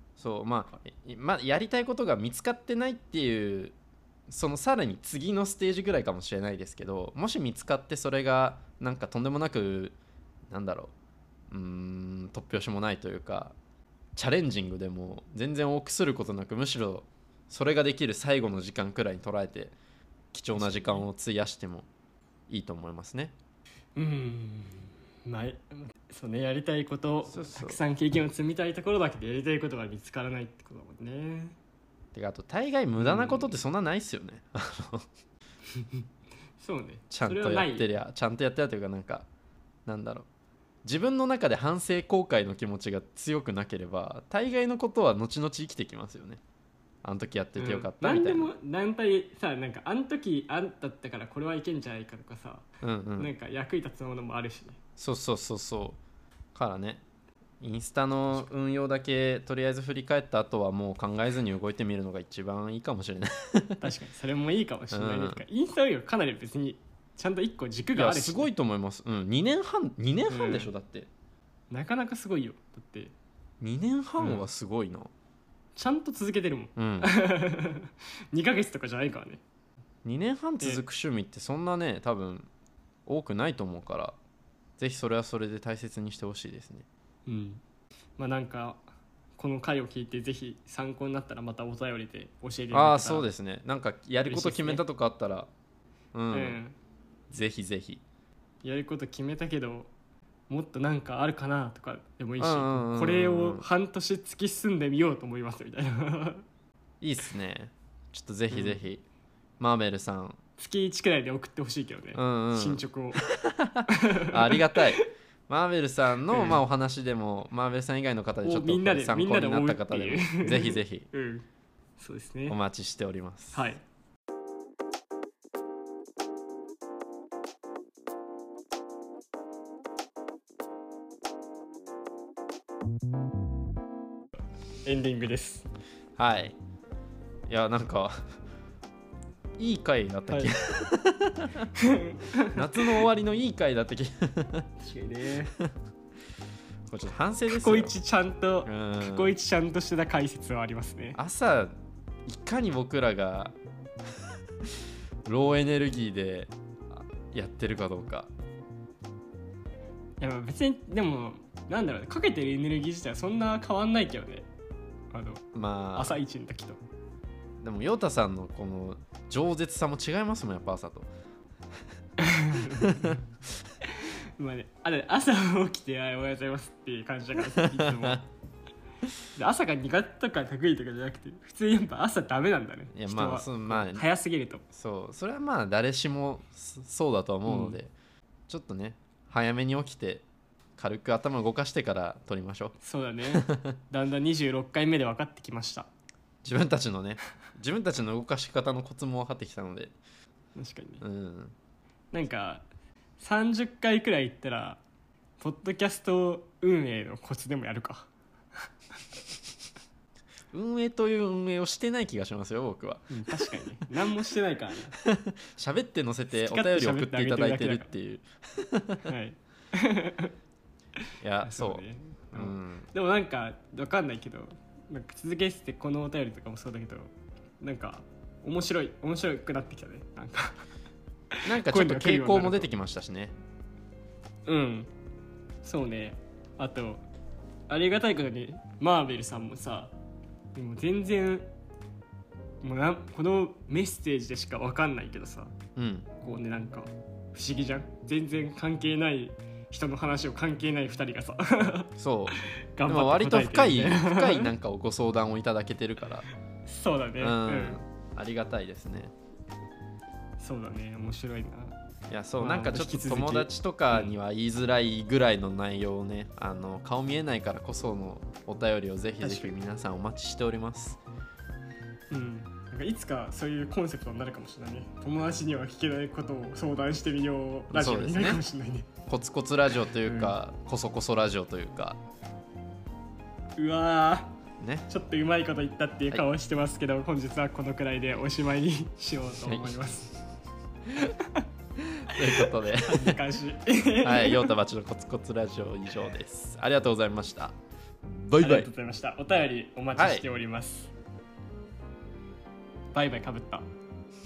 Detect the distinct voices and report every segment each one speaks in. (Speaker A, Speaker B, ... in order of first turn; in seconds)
Speaker A: 0.2-3.7, 4.3-10.0, 10.5-10.9, 11.5-13.5, 14.2-19.8, 20.3-21.9, 22.5-23.3, 27.3-27.8, 32.1-35.1, 37.1-39.3, 39.9-40.3, 40.8-46.4, 47.0-48.5, 52.8-53.3, 55.0-56.0, 56.5-57.0, 57.6-63.8, 64.9-65.4, 67.9-71.1, 73.6-75.1, 76.8-77.1, 80.0-82.5, 83.0-84.2, 84.8-86.8, 92.7-95.5, 96.1-96.6, 97.3-98.0, 102.4-103.7, 107.0-109.0, 109.6-110.4, 112.1-121.1, 122.5-123.6, 136.2-136.6, 137.5-138.2, 139.6-141.7, 142.5-144.7, 146.9-147.9, 148.7-149.3, 151.2-151.7, 152.2-153.5, 155.2-158.3, 165.5-166.2, 167.6-171.1, 172.5-173.2, 177.6-178.2, 182.9-184.0, 184.7-187.9, 188.5-190.2, 190.8-192.8, 193.3-193.8, 196.4-199.9, 201.0-201.5, 210.5-213.6, 215.0-219.1, 221.2-222.9, 231.4-233.3, 245.8-246.1, 252.0-256.3, 257.2-259.1, 262.1-271.0, 277.7-278.4, 279.1-282.0, 284.6-284.9, 289.4-289.8, 291.8-293.2, 294.0-298.7, 299.9-300.2
Speaker B: 20.5-21.0, 23.9-31.6, 33.0-33.5, 35.8-36.0, 36.6-37.9, 47.5-54.8, 63.8-68.5, 70.3-70.7, 71.7-73.1, 74.2-74.4, 75.8-79.4, 87.2-87.6, 88.2-88.8, 89.3-93.3, 94.2-94.8, 96.3-96.7, 98.6-99.9, 100.5-106.4, 108.5-108.8, 110.6-113.2, 113.9-115.1, 116.3-116.6, 118.4-121.4, 122.0-122.5, 123.5-123.8, 134.8-135.7, 140.3-140.5, 141.8-143.0, 144.8-145.5, 147.5-151.2, 160.2-164.5, 165.1-166.8, 172.2-173.2, 173.8-178.2, 179.3-184.6, 187.4-187.8, 192.8-195.9, 200.6-201.0, 202.1-202.7, 203.2-204.8, 205.4-208.1, 213.1-214.9, 216.3-217.9, 219.1-220.3, 221.4-230.6, 231.3-232.7, 234.5-234.9, 235.6-237.0, 237.7-239.9, 240.5-241.5, 242.6-245.5, 246.2-254.5, 256.6-257.8, 260.4-261.7, 262.4-264.1, 269.2-269.5, 272.1-278.9, 280.0-280.3, 283.6-284.3, 284.9-290.1, 291.0-291.4, 292.1-294.5, 298.4-300.9, 302.9-303.7